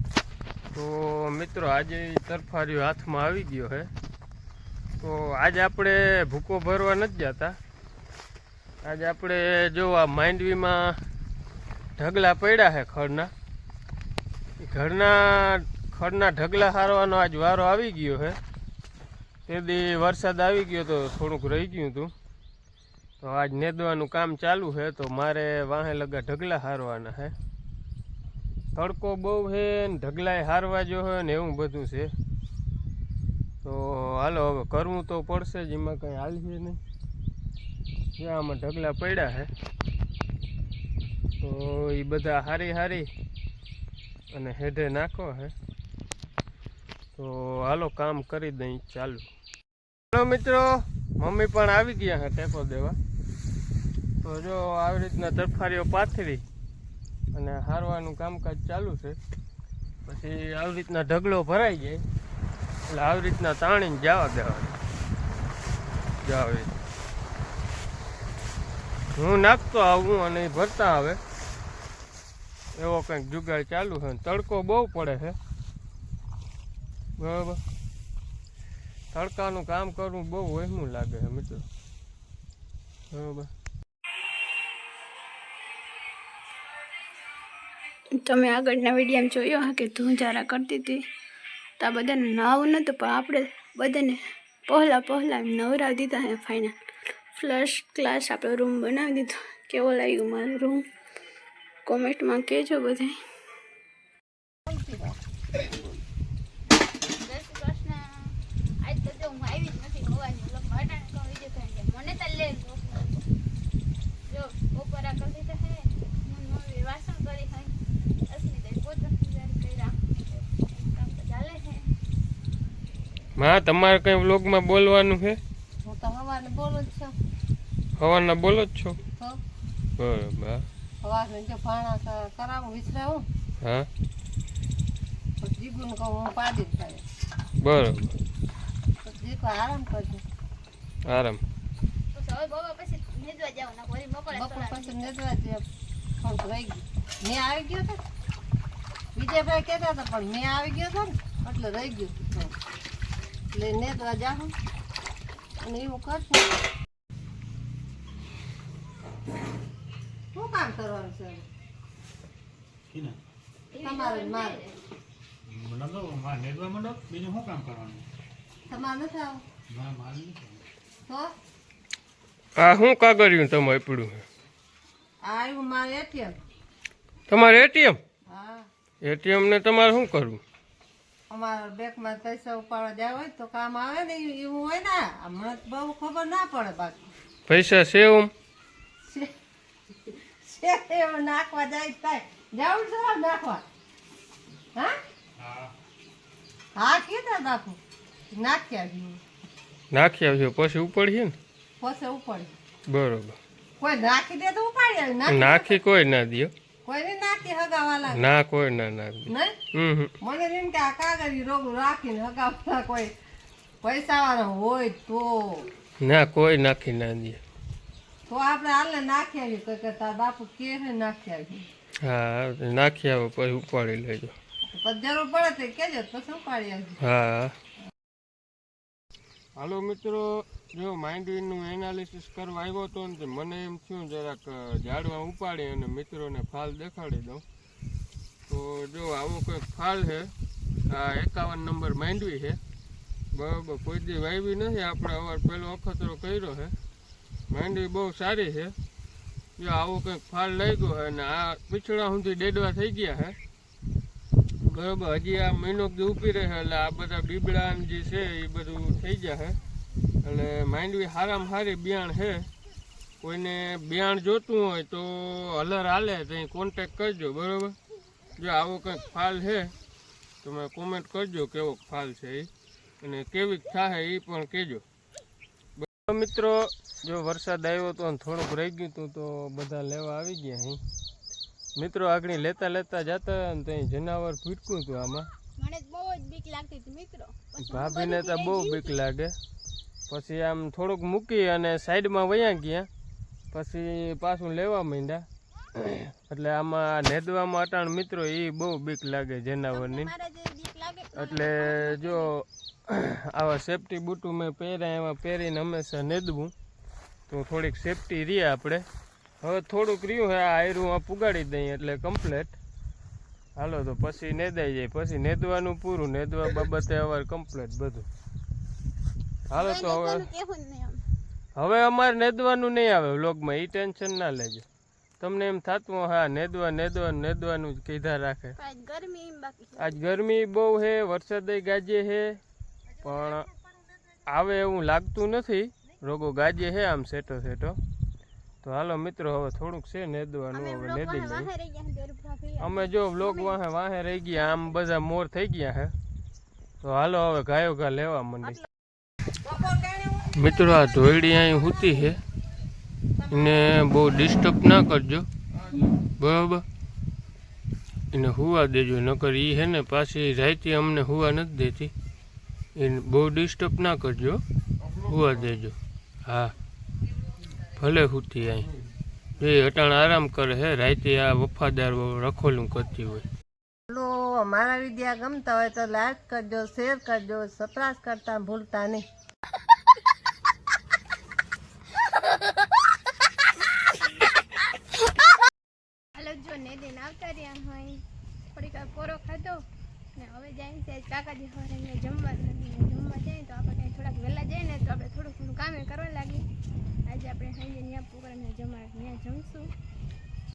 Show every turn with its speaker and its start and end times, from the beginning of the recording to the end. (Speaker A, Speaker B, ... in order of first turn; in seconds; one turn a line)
Speaker A: 0.7-3.9
Speaker A: 5.0-7.6
Speaker A: 8.8-11.0
Speaker A: 12.0-13.3
Speaker A: 14.6-18.4
Speaker A: 19.5-22.1
Speaker A: 23.2-27.3
Speaker A: 28.8-32.1
Speaker A: 33.6-36.8
Speaker A: 38.2-39.5
Speaker A: 41.4-43.1
Speaker A: 44.3-45.5
Speaker A: 47.2-49.3
Speaker A: 50.1-53.0
Speaker A: 54.2-56.4
Speaker A: 57.3-59.2
Speaker A: 60.1-62.0
Speaker A: 62.9-64.8
Speaker A: 66.2-66.7
Speaker A: 69.2-71.2
Speaker A: 72.8-75.4
Speaker A: 77.2-77.6
Speaker A: 79.1-81.7
Speaker A: 83.1-83.5
Speaker B: 88.2-91.1
Speaker B: 91.8-96.8
Speaker B: 97.4-100.8
Speaker B: 101.9-103.2
Speaker C: 104.7-105.2
Speaker D: 107.2-113.2
Speaker D: 114.3-117.8
Speaker D: 118.3-120.0
Speaker D: 120.5-121.8
Speaker A: 123.4-125.4
Speaker C: 125.8-127.1
Speaker A: 128.0-129.0
Speaker A: 130.0-130.7
Speaker C: 131.0-133.2
Speaker A: 133.6-133.9
Speaker C: 135.4-137.0
Speaker A: 137.6-138.1
Speaker C: 139.0-140.2
Speaker A: 141.1-141.4
Speaker D: 142.1-145.1
Speaker C: 144.3-145.7
Speaker C: 146.2-148.0
Speaker C: 149.2-152.5
Speaker C: 153.5-154.5
Speaker C: 155.6-156.6
Speaker C: 160.3-161.4
Speaker E: 162.9-163.2
Speaker D: 163.7-164.8
Speaker C: 163.8-164.6
Speaker E: 165.5-168.1
Speaker C: 168.7-169.4
Speaker E: 169.7-170.6
Speaker A: 172.6-174.2
Speaker C: 175.2-176.3
Speaker A: 177.3-178.0
Speaker C: 178.3-178.7
Speaker A: 179.0-180.4
Speaker C: 181.3-187.1
Speaker A: 187.5-188.3
Speaker C: 189.1-189.3
Speaker C: 190.4-193.6
Speaker E: 195.4-195.7
Speaker C: 196.8-197.8
Speaker C: 198.3-199.2
Speaker A: 199.9-201.3
Speaker C: 201.8-202.5
Speaker A: 202.9-203.4
Speaker C: 203.8-205.8
Speaker A: 205.3-206.5
Speaker C: 206.8-208.3
Speaker A: 208.1-210.1
Speaker C: 209.3-209.6
Speaker C: 210.2-213.1
Speaker C: 213.8-215.7
Speaker A: 216.0-217.4
Speaker C: 218.3-221.7
Speaker A: 222.0-224.3
Speaker C: 224.7-227.0
Speaker A: 227.0-227.5
Speaker A: 229.6-237.4
Speaker A: 238.5-240.3
Speaker A: 240.9-242.6
Speaker A: 243.3-246.8
Speaker A: 247.5-248.8
Speaker A: 249.6-253.4
Speaker A: 254.6-259.6
Speaker A: 260.2-262.5
Speaker A: 263.2-267.8
Speaker A: 268.4-269.7
Speaker A: 270.4-272.5
Speaker A: 273.0-274.8
Speaker A: 275.8-280.8
Speaker A: 281.8-285.3
Speaker D: 285.6-289.0
Speaker A: 287.6-289.3
Speaker A: 290.1-292.9
Speaker A: 293.5-300.1
Speaker D: 299.7-302.3
Speaker A: 301.1-306.5
Speaker A: 307.3-308.9
Speaker A: 309.4-312.6
Speaker A: 313.6-318.1
Speaker A: 319.5-320.3
Speaker D: 319.5-321.0
Speaker A: 321.6-324.6
Speaker A: 325.2-328.6
Speaker D: 328.6-330.0
Speaker A: 329.8-332.4
Speaker A: 333.0-333.5
Speaker A: 334.3-337.8
Speaker A: 338.6-341.5
Speaker D: 340.5-343.6
Speaker A: 342.6-345.9
Speaker A: 346.8-348.6
Speaker C: 349.4-352.1
Speaker A: 350.4-352.2
Speaker C: 353.2-353.8
Speaker A: 353.3-355.3
Speaker A: 356.1-356.6
Speaker A: 358.1-361.9
Speaker A: 362.8-364.4
Speaker A: 365.0-365.8
Speaker A: 366.3-366.5
Speaker A: 367.8-368.7
Speaker A: 369.4-373.2
Speaker C: 373.9-379.0
Speaker D: 386.2-388.0
Speaker D: 388.6-389.6
Speaker D: 390.2-396.4
Speaker D: 397.1-399.7